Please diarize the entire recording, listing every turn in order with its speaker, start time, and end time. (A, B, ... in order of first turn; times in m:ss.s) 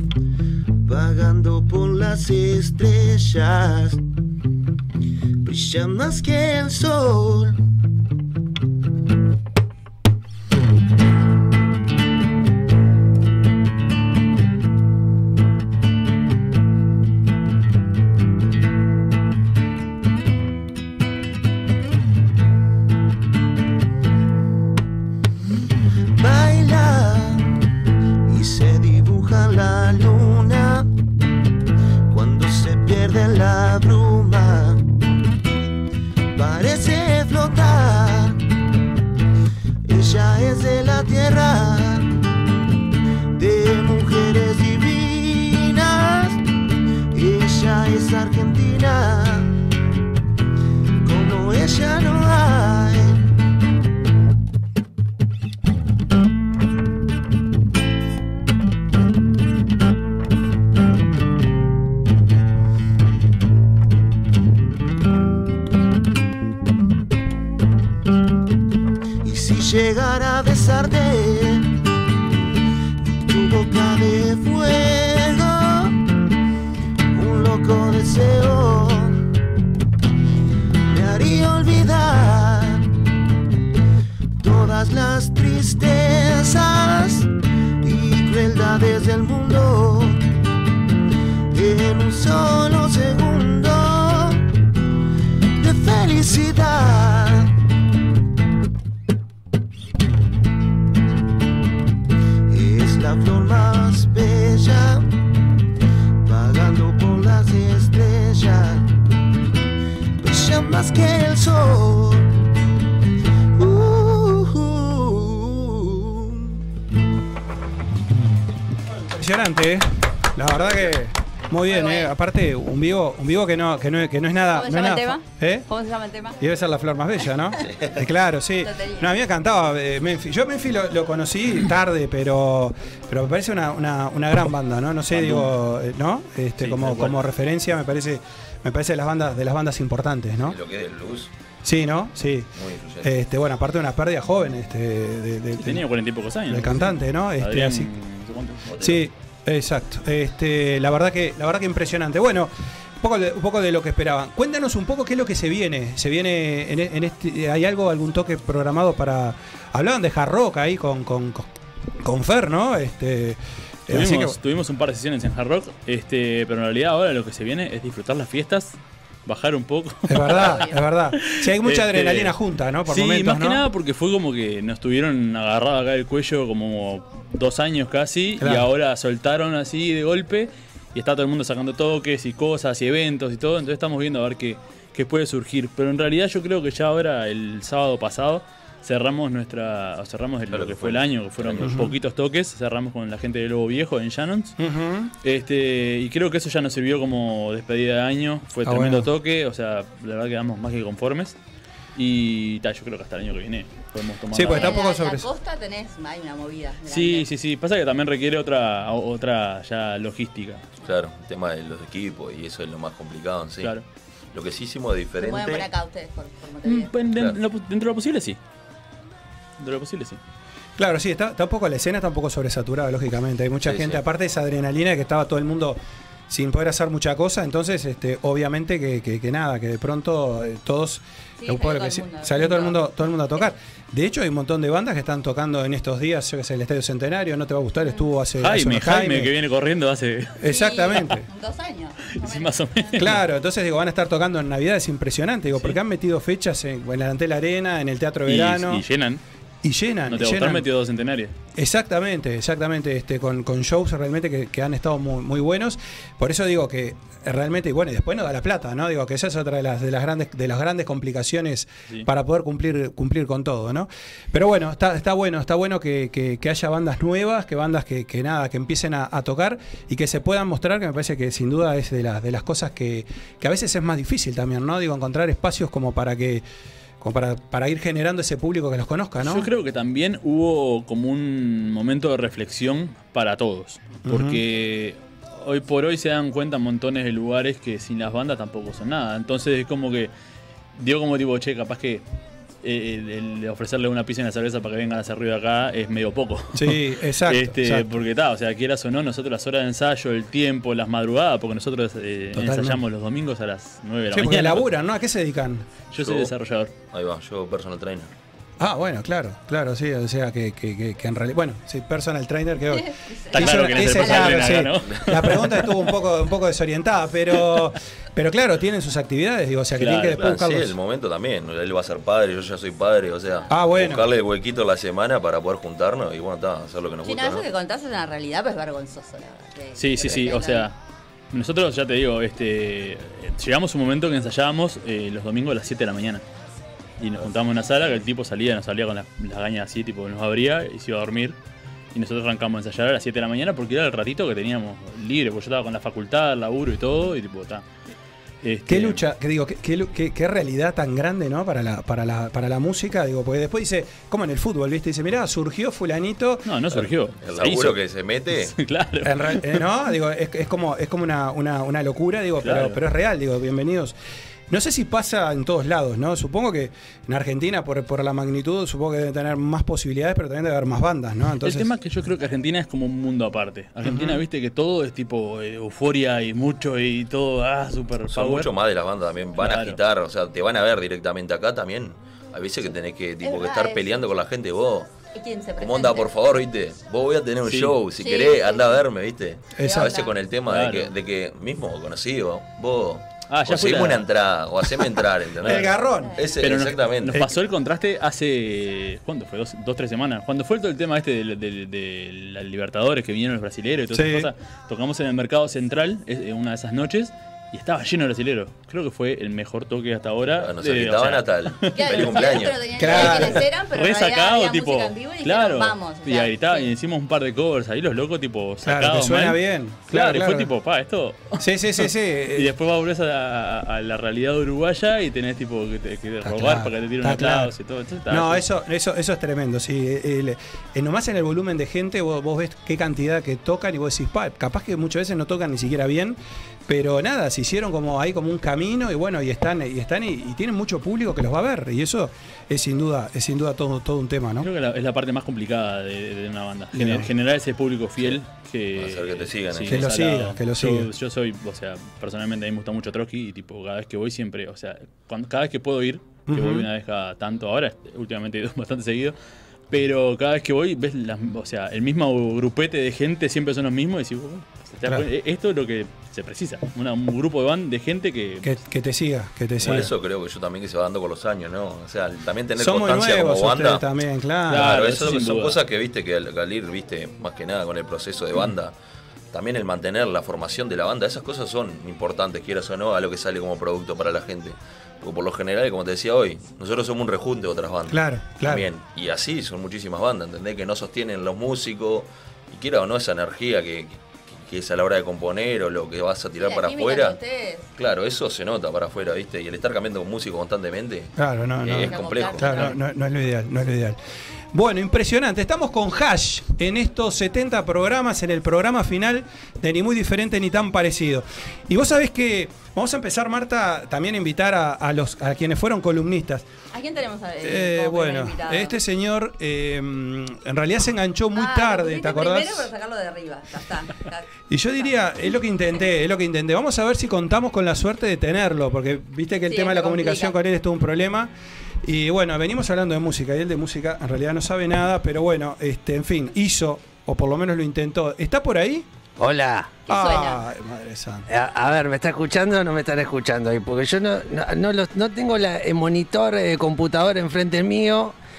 0:00.8-0:04.0 A
0:05.4-0:07.6 A
0:26.2-0:27.5 A
0:28.3-0:30.9 A
0:32.1-0:34.8 A
0:36.3-0:38.4 A
0:39.8-0:42.1 A
0:43.3-0:46.4 A
0:47.1-0:49.5 A
0:51.0-0:53.2 A
1:09.2-1:11.7 A
1:13.2-1:15.9 A
1:17.1-1:19.2 A
1:20.9-1:22.9 A
1:24.4-1:27.3 A
1:27.8-1:30.2 A
1:31.5-1:34.4 A
1:35.6-1:37.5 A
1:42.5-1:45.0 A
1:46.2-1:48.9 A
1:50.2-1:52.3 A
1:53.5-1:56.6 A
1:58.9-2:05.6 B
2:01.6-2:02.1 C
2:04.5-2:06.4 C
2:06.4-2:20.6 B
2:08.6-2:09.1 C
2:15.1-2:15.5 D
2:16.6-2:17.2 D
2:20.4-2:21.3 E
2:21.6-2:22.5 B
2:22.5-2:23.2 E
2:23.0-2:25.8 B
2:25.6-2:28.6 D
2:26.5-2:27.9 B
2:28.7-2:29.0 E
2:28.8-2:41.5 B
2:42.0-2:44.4 B
2:43.9-2:50.6 D
2:50.1-2:53.6 B
2:50.5-2:50.7 C
2:51.2-2:52.3 D
2:52.8-3:14.6 D
2:58.4-2:58.7 B
3:10.5-3:11.9 E
3:11.6-3:11.9 B
3:14.6-3:15.1 B
3:15.2-3:21.4 D
3:18.6-3:19.1 B
3:21.9-3:24.8 D
3:24.3-3:25.3 B
3:24.5-3:27.2 C
3:26.9-3:30.7 D
3:30.8-3:33.7 E
3:34.3-3:35.7 E
3:35.2-3:36.9 C
3:36.6-3:38.4 D
3:39.6-3:40.2 D
3:40.8-3:45.8 B
3:43.6-3:44.0 E
3:46.3-3:59.3 B
3:51.4-3:52.8 C
3:58.4-4:00.4 D
4:00.4-4:01.2 B
4:00.4-4:03.0 C
4:02.2-4:03.2 D
4:03.0-4:08.8 B
4:08.3-4:09.2 D
4:09.6-4:10.6 B
4:10.1-4:11.3 D
4:11.6-4:36.4 B
4:37.0-4:39.5 B
4:39.2-4:50.1 D
4:44.0-4:44.4 B
4:50.8-4:52.0 D
4:52.6-5:04.7 D
4:56.5-4:57.9 B
5:02.3-5:02.8 B
5:04.1-5:05.7 B
5:05.9-5:06.7 D
5:06.0-5:06.3 E
5:06.9-5:08.1 E
5:08.6-5:20.8 B
5:12.8-5:14.6 C
5:13.3-5:15.9 D
5:19.8-5:20.2 D
5:19.9-5:27.5 E
5:23.5-5:24.1 B
5:27.0-5:30.7 C
5:29.8-5:30.8 D
5:31.3-5:36.2 D
5:37.0-5:41.4 D
5:41.9-5:47.6 D
5:48.4-5:49.0 D
5:48.7-5:56.5 B
5:56.4-5:57.8 D
5:57.2-5:58.5 E
5:58.3-5:59.6 D
5:59.0-6:03.9 B
6:02.4-6:02.8 D
6:04.5-6:11.7 B
6:11.4-6:18.5 D
6:13.8-6:14.2 B
6:18.1-6:24.9 E
6:19.4-6:19.8 D
6:23.2-6:23.8 C
6:25.1-6:26.4 C
6:25.6-6:37.2 E
6:27.4-6:27.7 D
6:28.0-6:28.7 C
6:29.6-6:30.1 C
6:29.6-6:29.9 B
6:30.5-6:30.9 D
6:33.3-6:34.0 D
6:35.4-6:36.2 B
6:36.0-6:36.3 C
6:36.4-6:52.2 D
6:43.9-6:44.3 B
6:50.3-6:53.2 E
6:51.7-6:56.7 C
6:52.8-6:53.4 B
6:53.0-7:08.4 D
6:58.6-7:00.5 B
7:01.4-7:02.5 B
7:06.2-7:07.5 B
7:08.1-7:24.5 B
7:24.4-7:39.1 D
7:26.7-7:27.1 B
7:28.7-7:30.1 E
7:29.7-7:30.9 B
7:36.3-7:36.6 B
7:39.7-7:48.5 D
7:48.4-7:49.9 B
7:49.6-7:53.8 E
7:52.6-7:54.7 B
7:54.5-7:55.6 D
7:54.6-7:58.7 E
7:59.3-8:17.2 E
8:07.9-8:08.6 B
8:16.4-8:17.7 C
8:17.8-8:22.7 E
8:21.2-8:24.0 B
8:21.6-8:22.8 C
8:24.5-8:36.4 B
8:36.7-8:38.8 C
8:37.4-8:42.7 B
8:41.4-8:44.3 C
8:44.5-8:51.3 B
8:49.5-8:50.4 C
8:51.8-8:58.8 B
8:59.2-8:59.7 F
8:59.8-9:00.4 C
8:59.9-9:01.2 B
9:01.3-9:08.1 F